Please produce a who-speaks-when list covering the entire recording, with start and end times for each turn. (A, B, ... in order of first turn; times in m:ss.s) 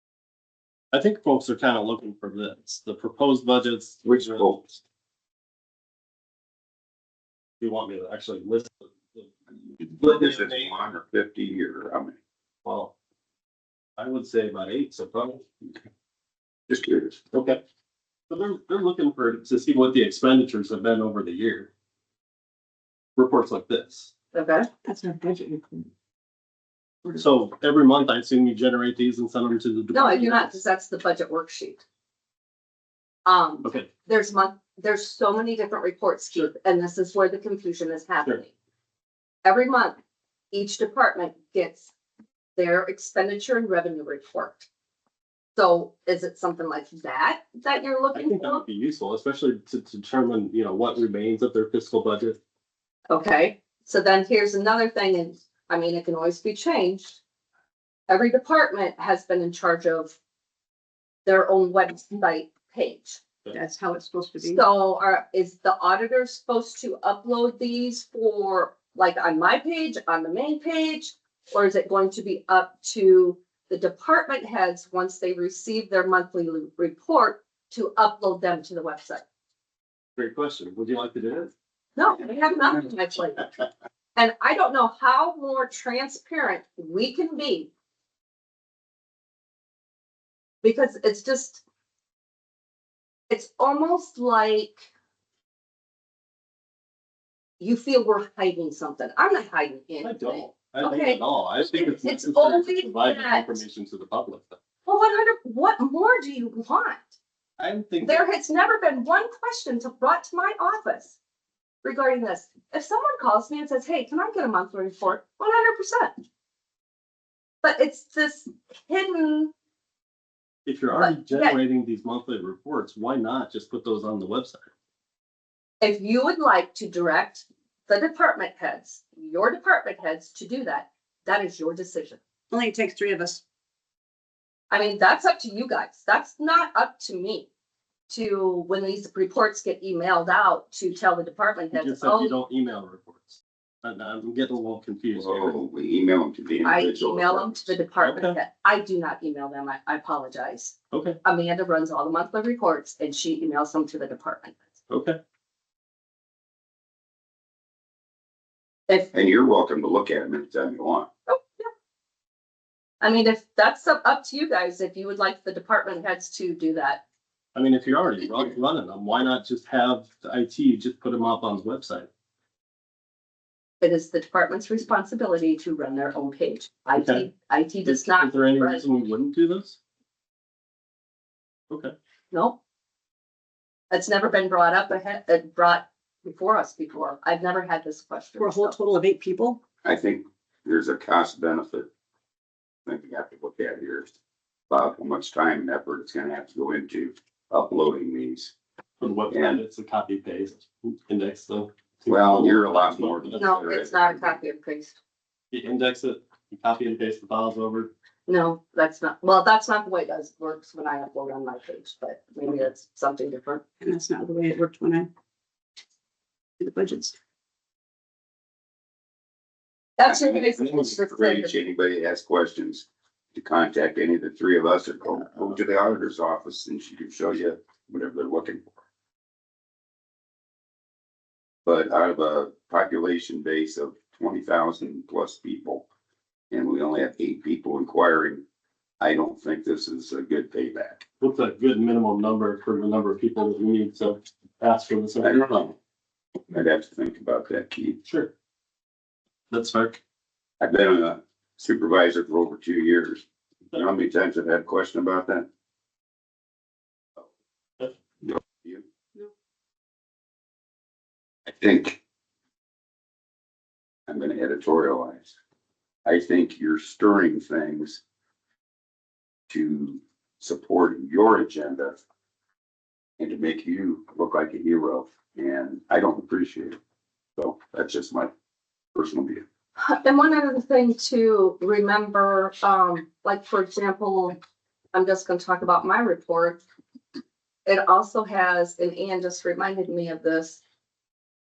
0:00.9-0:04.6 A
0:04.0-0:04.7 B
0:07.6-0:09.3 A
0:09.8-0:12.1 B
0:10.0-0:10.8 A
0:12.6-0:12.9 A
0:14.0-0:15.5 A
0:16.7-0:17.2 B
0:17.3-0:17.6 A
0:18.3-0:21.7 A
0:23.2-0:24.1 A
0:24.3-0:24.7 C
0:24.8-0:25.9 D
0:27.1-0:30.6 A
0:29.9-0:31.8 C
0:33.2-0:38.5 C
0:33.6-0:33.9 A
0:39.4-0:40.0 C
0:40.5-0:41.9 C
0:42.6-0:44.7 C
0:45.5-0:48.6 C
0:48.1-0:52.4 A
0:53.1-0:57.2 C
0:58.1-1:00.2 C
1:01.2-1:03.2 C
1:03.5-1:04.6 D
1:04.4-1:19.2 C
1:20.2-1:21.5 A
1:22.0-1:23.5 C
1:24.1-1:27.7 C
1:30.6-1:31.6 C
1:33.3-1:34.9 C
1:37.6-1:43.6 C
1:40.0-1:44.6 A
1:44.8-1:47.1 C
1:47.6-1:48.3 A
1:48.0-1:51.2 C
1:51.8-1:56.2 C
1:57.6-1:59.5 C
2:00.6-2:04.6 A
2:01.0-2:01.6 C
2:05.8-2:12.2 C
2:12.5-2:13.4 D
2:14.7-2:17.5 C
2:18.1-2:22.3 C
2:21.7-2:25.6 A
2:25.1-2:27.8 B
2:26.6-2:34.6 C
2:28.0-2:28.4 A
2:30.9-2:31.2 A
2:34.9-2:35.2 A
2:39.1-2:41.1 B
2:41.3-2:41.7 C
2:43.0-2:47.0 C
2:47.5-2:52.1 A
2:53.8-2:58.8 C
2:57.0-2:57.3 A
2:57.8-2:59.8 A
3:02.3-3:02.6 C
3:03.9-3:08.8 C
3:08.4-3:09.6 D
3:09.8-3:11.9 B
3:12.8-3:14.1 B
3:14.7-3:18.5 B
3:19.0-3:23.4 A
3:19.3-3:19.6 B
3:22.1-3:24.4 B
3:23.3-3:25.0 C
3:25.5-3:27.9 A
3:28.2-3:33.6 C
3:33.8-3:35.1 D
3:36.6-3:37.1 D
3:40.0-3:41.6 C
3:40.0-3:48.7 B
3:51.6-3:55.8 B
3:56.5-3:58.4 B
3:59.0-4:01.0 B
4:01.2-4:05.4 A
4:05.2-4:05.8 B
4:06.5-4:08.0 B
4:08.0-4:08.3 A
4:09.5-4:10.0 A
4:10.6-4:15.5 B
4:18.2-4:18.8 B
4:21.4-4:22.0 B
4:24.1-4:25.3 B
4:26.0-4:28.0 B
4:29.5-4:32.0 B
4:33.2-4:36.8 B
4:37.4-4:38.3 B
4:38.9-4:39.4 B
4:39.8-4:44.4 C
4:44.9-4:46.6 C
4:47.6-4:50.6 C